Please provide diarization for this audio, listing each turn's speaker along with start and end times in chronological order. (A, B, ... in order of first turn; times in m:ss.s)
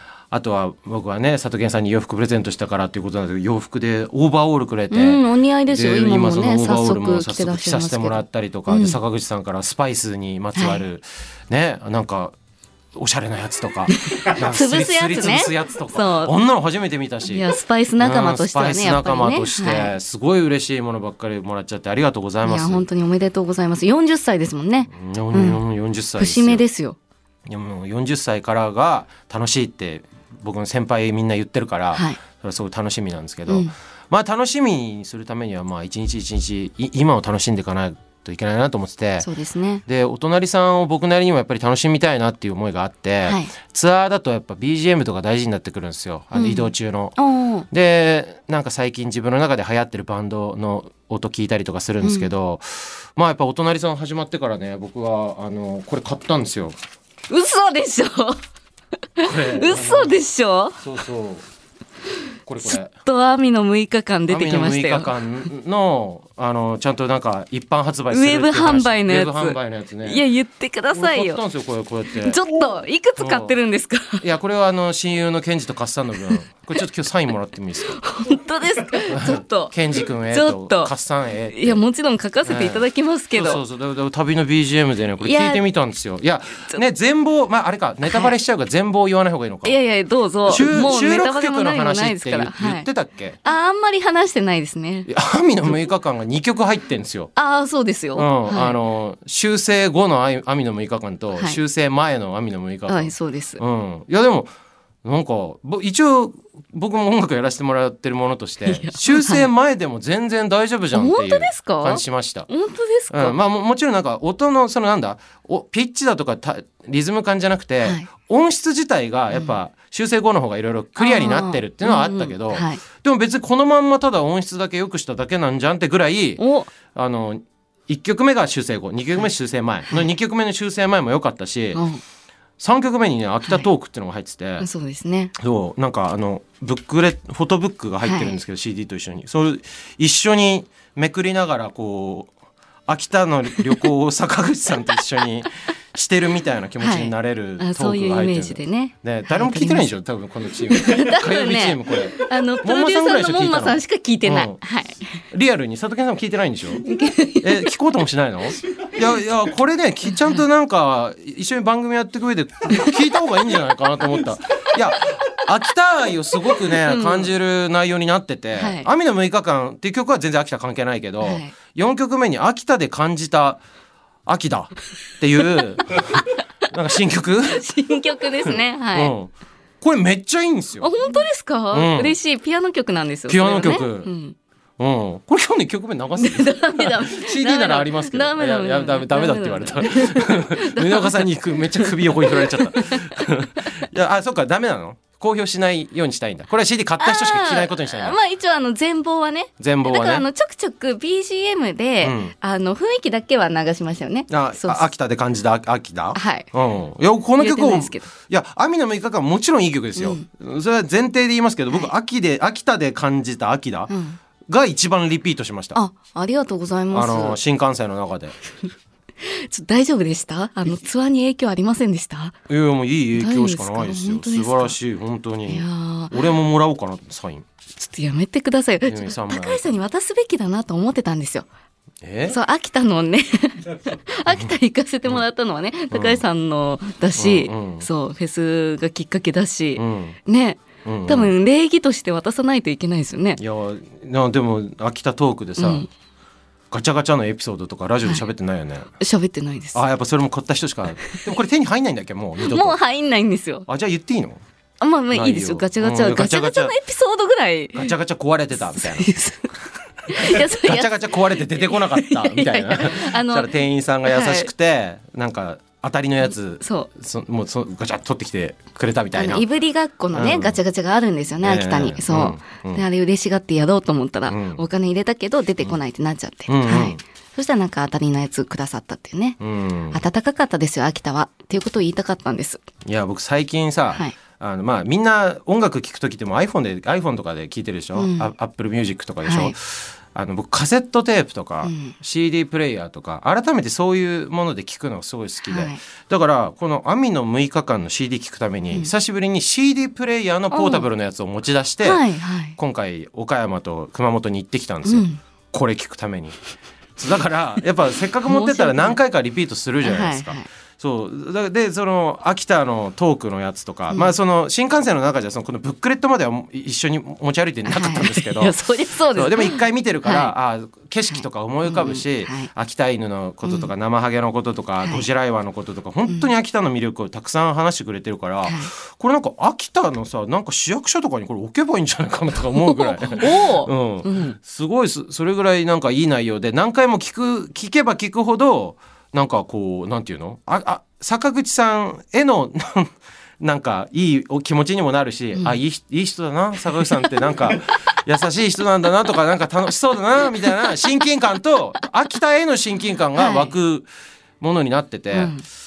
0:00.3-0:12.4 A
0:04.9-0:09.0 B
0:10.6-0:10.8 B
0:12.9-0:17.4 A
0:13.9-0:16.3 B
0:17.3-0:19.9 B
0:18.0-0:22.8 A
0:22.4-0:25.6 B
0:24.9-0:26.6 A
0:26.2-0:27.0 B
0:27.4-0:39.3 A
0:31.9-0:32.2 B
0:33.5-0:33.7 B
0:39.2-0:39.8 B
0:39.9-0:47.2 A
0:43.2-0:43.5 B
0:46.3-0:47.7 B
0:47.7-0:56.8 A
0:52.0-0:52.3 B
0:57.3-0:58.4 B
0:59.2-1:00.8 B
0:59.2-1:00.2 A
1:00.8-1:01.4 A
1:02.4-1:02.9 A
1:02.6-1:05.4 B
1:04.3-1:10.2 A
1:08.1-1:11.4 B
1:10.9-1:12.4 A
1:12.2-1:14.2 B
1:13.2-1:13.5 A
1:14.2-1:18.0 A
1:17.9-1:19.8 B
1:19.1-1:21.8 A
1:20.3-1:20.9 B
1:21.5-1:23.6 B
1:22.4-1:29.8 A
1:25.2-1:25.6 B
1:28.1-1:28.3 B
1:29.6-1:32.9 B
1:30.5-1:33.4 A
1:33.4-1:35.1 B
1:35.1-1:37.3 A
1:37.4-1:38.8 B
1:38.1-1:44.5 A
1:42.9-1:43.6 B
1:45.0-1:52.5 A
1:48.6-1:49.5 B
1:50.9-1:53.4 B
1:53.1-2:11.8 A
2:01.0-2:02.8 B
2:06.4-2:06.7 B
2:11.7-2:12.0 B
2:12.6-2:14.6 A
2:14.6-2:15.3 B
2:15.4-2:22.3 A
2:18.0-2:18.4 B
2:22.9-2:34.6 A
2:26.8-2:30.0 B
2:30.7-2:35.1 B
2:35.3-2:36.8 A
2:36.8-2:37.7 B
2:37.4-2:53.6 A
2:40.1-2:40.4 B
2:46.7-2:47.3 B
2:48.6-2:48.9 B
2:51.2-2:51.5 B
2:54.2-2:57.6 A
2:57.5-2:59.1 B
2:58.4-3:00.9 A
3:00.8-3:04.4 B
3:01.7-3:02.2 A
3:03.3-3:04.1 A
3:04.8-3:18.2 A
3:06.2-3:13.3 B
3:17.0-3:24.9 B
3:19.6-3:20.2 A
3:22.0-3:22.3 A
3:24.3-3:33.9 A
3:26.1-3:26.5 B
3:27.4-3:28.1 B
3:30.0-3:30.2 B
3:33.9-3:34.2 B
3:34.5-3:35.8 A
3:35.7-3:37.4 B
3:36.9-3:38.3 A
3:39.2-3:42.3 B
3:42.5-3:47.4 A
3:43.2-3:44.8 B
3:45.4-3:46.2 B
3:47.8-3:51.5 B
3:48.9-3:49.8 A
3:52.0-3:52.4 A
3:52.3-4:03.4 B
3:55.9-3:56.2 A
3:57.2-3:57.9 A
3:59.8-4:00.2 A
4:00.8-4:01.3 A
4:03.4-4:05.9 A
4:05.6-4:05.9 B
4:06.7-4:08.9 A
4:09.0-4:09.8 B
4:09.7-4:12.8 A
4:12.4-4:13.6 B
4:13.7-4:14.4 A
4:14.8-4:17.9 B
4:15.1-4:16.8 A
4:17.8-4:19.1 A
4:18.6-4:19.6 B
4:20.1-4:23.5 B
4:20.2-4:29.4 A
4:24.0-4:24.5 B
4:26.6-4:26.9 B
4:29.1-4:39.4 B
4:30.1-4:30.6 A
4:31.4-4:32.8 A
4:34.3-4:34.6 A
4:36.5-4:37.0 A
4:39.4-4:40.0 A
4:39.9-4:42.6 B
4:42.8-5:02.0 A
4:48.0-4:48.3 B
4:49.2-4:49.5 B
4:51.6-4:52.0 B
4:55.4-4:55.8 B
5:00.5-5:00.9 B
5:01.8-5:02.6 B
5:02.6-5:06.4 A
5:04.8-5:05.2 B
5:07.0-5:53.9 A
5:08.2-5:09.0 B
5:09.8-5:10.4 B
5:13.9-5:14.1 B
5:17.6-5:20.3 B
5:21.1-5:22.5 B
5:23.4-5:23.7 B
5:28.4-5:28.7 B
5:32.5-5:34.4 B
5:53.1-5:53.5 B
5:54.4-5:55.4 A
5:55.1-5:55.4 B